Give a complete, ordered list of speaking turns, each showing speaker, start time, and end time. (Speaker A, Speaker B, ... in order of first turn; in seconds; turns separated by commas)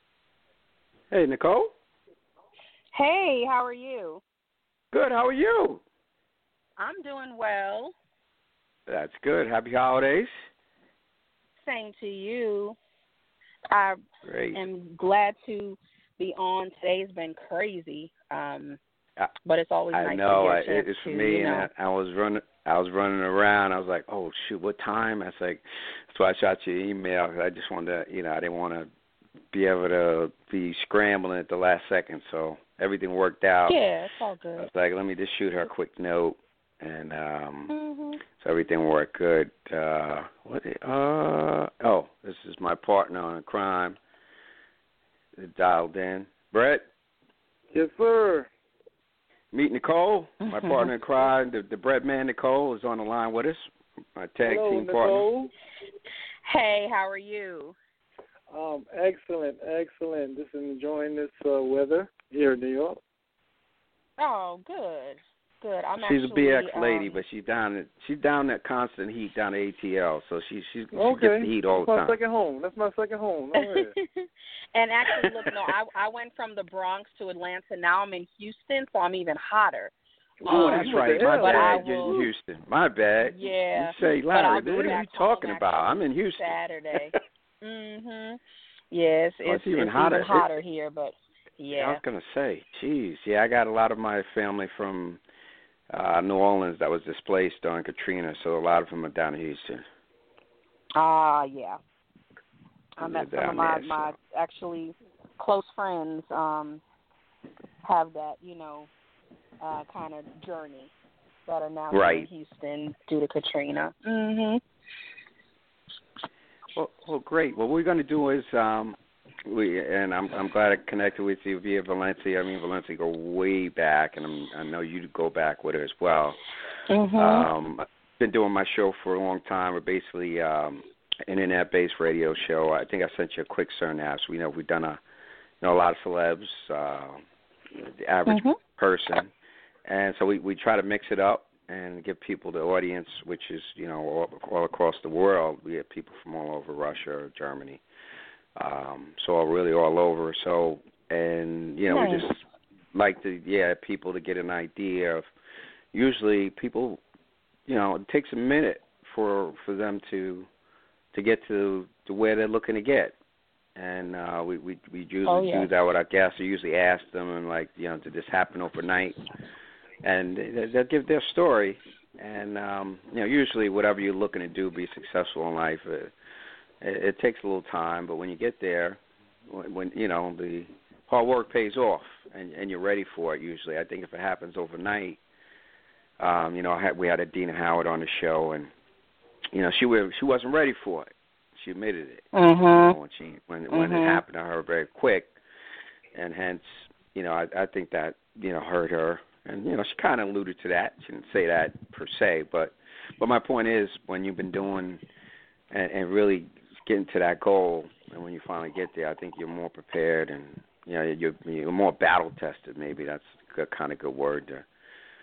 Speaker A: 1.1-1.7, Speaker B: 2.9-4.2, Speaker A: 4.9-5.8, Speaker B: 6.8-7.9, Speaker A: 8.9-10.3, Speaker B: 11.6-12.8, Speaker B: 13.7-14.0, Speaker A: 14.2-14.6, Speaker B: 14.5-18.8, Speaker B: 19.4-21.7, Speaker A: 19.9-28.9, Speaker A: 29.5-33.8, Speaker B: 33.7-34.7, Speaker A: 34.6-37.7, Speaker B: 37.7-38.2, Speaker A: 38.3-44.0, Speaker A: 45.4-46.9, Speaker C: 47.7-48.5, Speaker A: 49.5-55.2, Speaker B: 50.4-50.9, Speaker C: 54.4-55.5, Speaker B: 56.4-57.7, Speaker C: 58.5-63.0, Speaker B: 64.2-67.2, Speaker A: 66.0-72.2, Speaker C: 70.9-73.9, Speaker B: 73.5-82.2, Speaker C: 80.4-82.3, Speaker A: 80.5-87.0, Speaker B: 83.2-88.4, Speaker C: 84.7-85.0, Speaker B: 88.9-92.0, Speaker A: 89.4-90.5, Speaker A: 91.7-95.2, Speaker A: 95.9-99.8, Speaker B: 101.0-101.8, Speaker B: 103.0-106.8, Speaker A: 103.0-104.1, Speaker B: 107.8-108.9, Speaker B: 109.6-110.9, Speaker B: 111.5-114.6, Speaker A: 111.9-112.3, Speaker A: 116.7-126.4, Speaker B: 126.9-127.5, Speaker A: 127.2-135.0, Speaker A: 135.6-137.2, Speaker A: 137.7-139.3, Speaker B: 138.3-138.6, Speaker A: 139.8-147.8, Speaker A: 148.6-152.4, Speaker B: 151.9-152.3, Speaker A: 152.9-155.3, Speaker A: 155.9-157.0, Speaker A: 157.7-160.5, Speaker A: 161.1-163.1, Speaker A: 163.8-169.2, Speaker B: 165.2-165.7, Speaker A: 170.0-176.1, Speaker A: 176.8-185.2, Speaker A: 186.2-188.7, Speaker A: 189.5-195.3, Speaker B: 192.3-192.9, Speaker B: 193.7-194.2, Speaker A: 196.1-205.0, Speaker A: 205.7-214.6